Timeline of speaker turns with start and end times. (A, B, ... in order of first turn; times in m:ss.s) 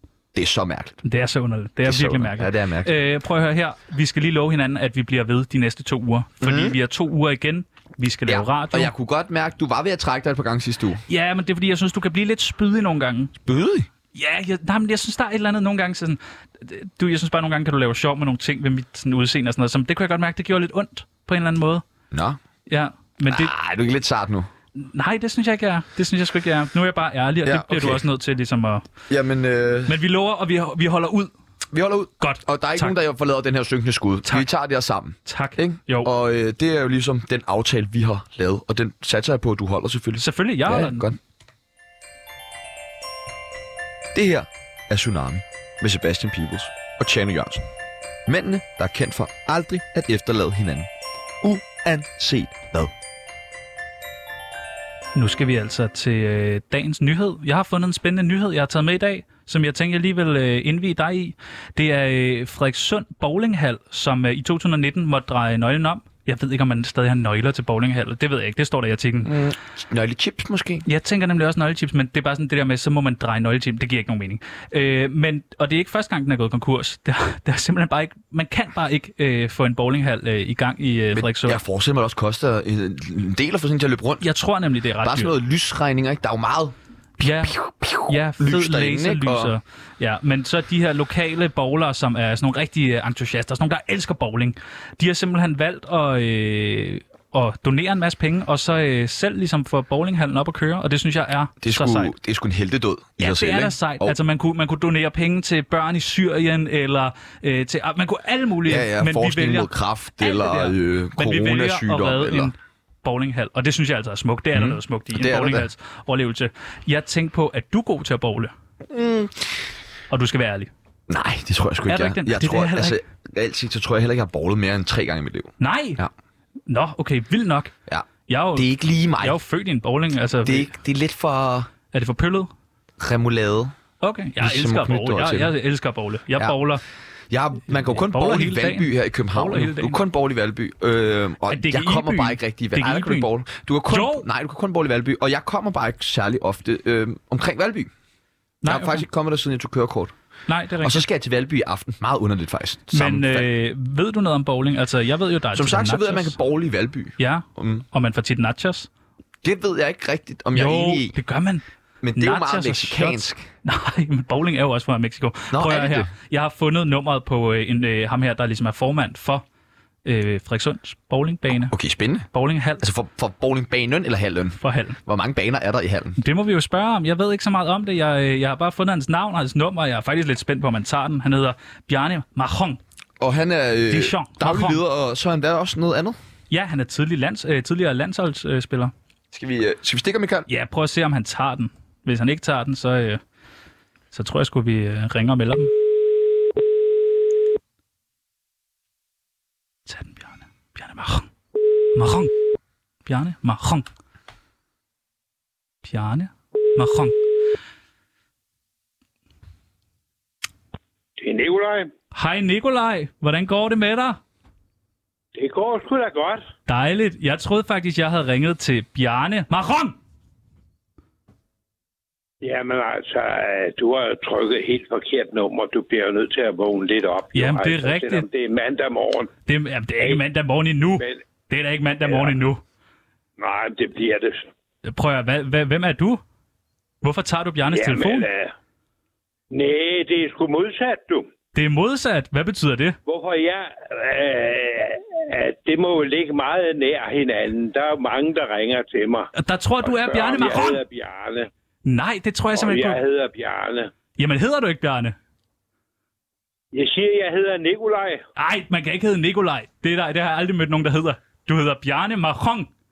0:00.3-0:01.0 A
0:01.0-0:08.9 B
0:01.8-0:03.0 A
0:06.4-0:06.8 A
0:08.2-0:11.0 A
0:11.1-0:13.3 B
0:13.4-0:13.9 A
0:14.1-0:21.8 B
0:22.1-0:22.4 A
0:22.7-0:23.5 B
0:23.3-0:24.5 A
0:24.8-0:28.8 B
0:27.4-0:28.0 A
0:29.1-0:30.0 A
0:29.9-0:31.3 B
0:31.7-0:41.2 A
0:32.2-0:32.9 B
0:35.2-0:36.1 B
0:40.2-0:41.1 B
0:44.1-0:47.6 A
0:48.3-0:50.9 A
0:51.4-0:52.9 A
0:55.1-1:09.3 B
1:09.2-1:10.8 A
1:10.8-1:21.6 B
1:21.1-1:24.2 A
1:24.2-1:25.3 B
1:25.0-1:29.5 A
1:27.2-1:42.1 B
1:41.6-1:44.2 A
1:43.2-1:58.5 B
1:48.6-1:52.5 A
1:54.5-1:55.7 A
1:58.9-1:59.6 A
2:00.1-2:00.7 B
2:01.1-2:06.1 A
2:01.9-2:03.0 B
2:05.6-2:06.0 B
2:06.7-2:07.7 B
2:07.9-2:09.4 A
2:08.3-2:08.7 B
2:09.2-2:10.7 B
2:10.4-2:11.7 A
2:11.9-2:12.5 B
2:13.0-2:13.7 A
2:14.0-2:16.8 B
2:14.4-2:15.5 A
2:17.3-2:27.9 A
2:17.8-2:20.0 B
2:21.5-2:23.3 B
2:23.9-2:24.3 B
2:28.6-2:29.0 B
2:28.6-2:30.1 A
2:30.5-2:31.0 B
2:30.8-2:33.5 A
2:32.9-2:36.4 B
2:35.5-2:37.8 A
2:37.2-2:38.9 B
2:39.4-2:41.2 A
2:40.5-2:41.6 B
2:42.0-2:43.5 A
2:42.2-2:49.4 B
2:45.5-2:46.1 A
2:50.0-2:51.7 B
2:51.5-2:52.3 A
2:52.3-2:52.8 B
2:52.8-2:56.2 A
2:54.6-2:55.0 B
2:56.2-3:02.8 B
3:03.2-3:06.2 A
3:03.9-3:04.8 B
3:06.5-3:08.9 B
3:09.3-3:10.5 A
3:10.5-3:13.2 B
3:14.1-3:15.7 B
3:19.8-3:21.3 B
3:21.9-3:22.3 B
3:23.0-3:23.8 B
3:25.8-3:27.2 B
3:31.2-3:31.9 C
3:32.1-3:34.2 B
3:35.3-3:36.4 C
3:36.7-3:40.0 B
3:42.4-3:49.3 C
3:47.3-3:48.2 B
3:49.5-3:52.6 B
3:52.1-3:52.3 C
3:53.4-3:54.4 C
3:54.8-3:56.2 B
3:57.0-3:58.3 B
3:57.7-3:58.5 C
3:59.5-4:01.3 C
4:01.5-4:03.0 B
4:03.1-4:09.3 C
4:09.3-4:10.8 B
4:09.8-4:11.5 C
4:11.8-4:13.0 B
4:12.6-4:13.9 C
4:14.2-4:15.2 B
4:16.7-4:18.2 C
4:18.4-4:22.7 B